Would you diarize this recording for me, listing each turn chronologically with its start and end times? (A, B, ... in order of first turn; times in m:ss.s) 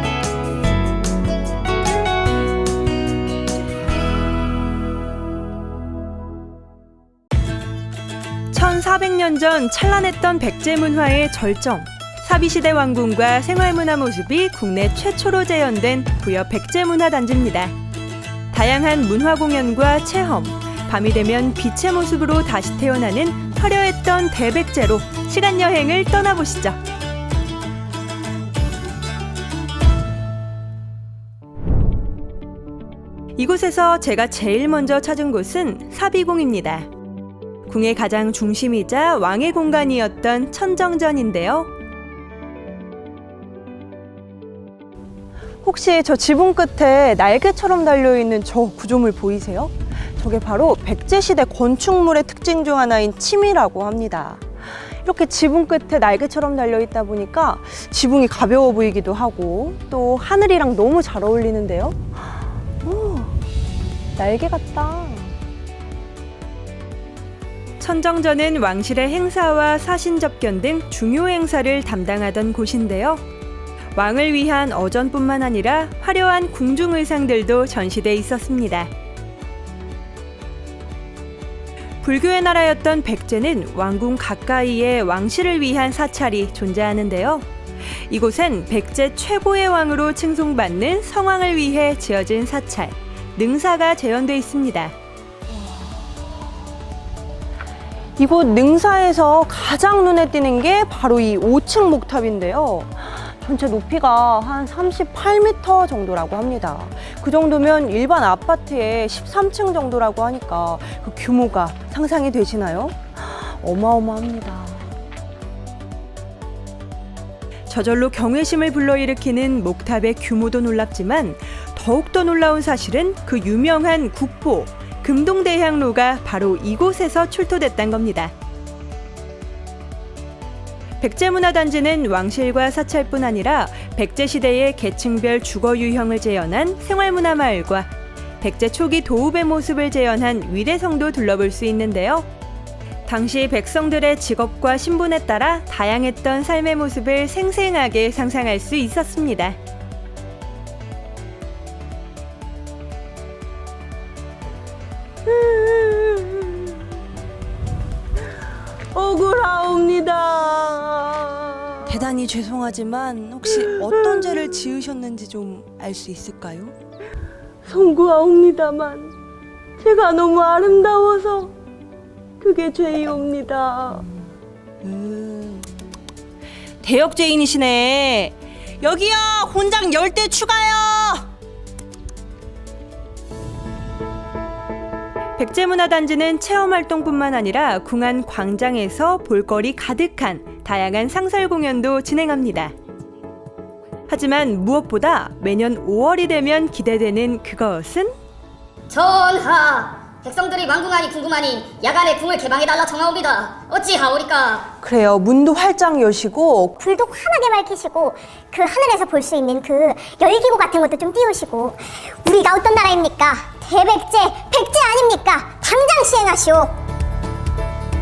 0:08.5-0:17.8 A
0:18.5-0:26.8 A
0:33.4-0:36.9 A
0:37.7-0:41.7 A
0:45.6-0:54.4 B
0:55.0-1:02.0 B
1:02.8-1:03.3 B
1:04.2-1:05.3 B
1:07.8-1:13.2 A
1:13.9-1:18.9 A
1:22.0-1:27.5 A
1:28.1-1:34.9 A
1:38.2-1:54.9 B
1:57.7-2:08.3 A
2:11.0-2:22.3 A
2:23.0-2:29.6 A
2:38.9-2:46.7 B
2:47.7-2:49.1 B
2:49.8-2:51.5 B
2:52.4-2:54.0 B
2:54.8-2:55.6 B
2:56.8-3:01.2 A
3:05.4-3:12.7 A
3:14.1-3:18.1 A
3:18.9-3:24.7 C
3:24.8-3:26.8 B
3:26.8-3:36.7 D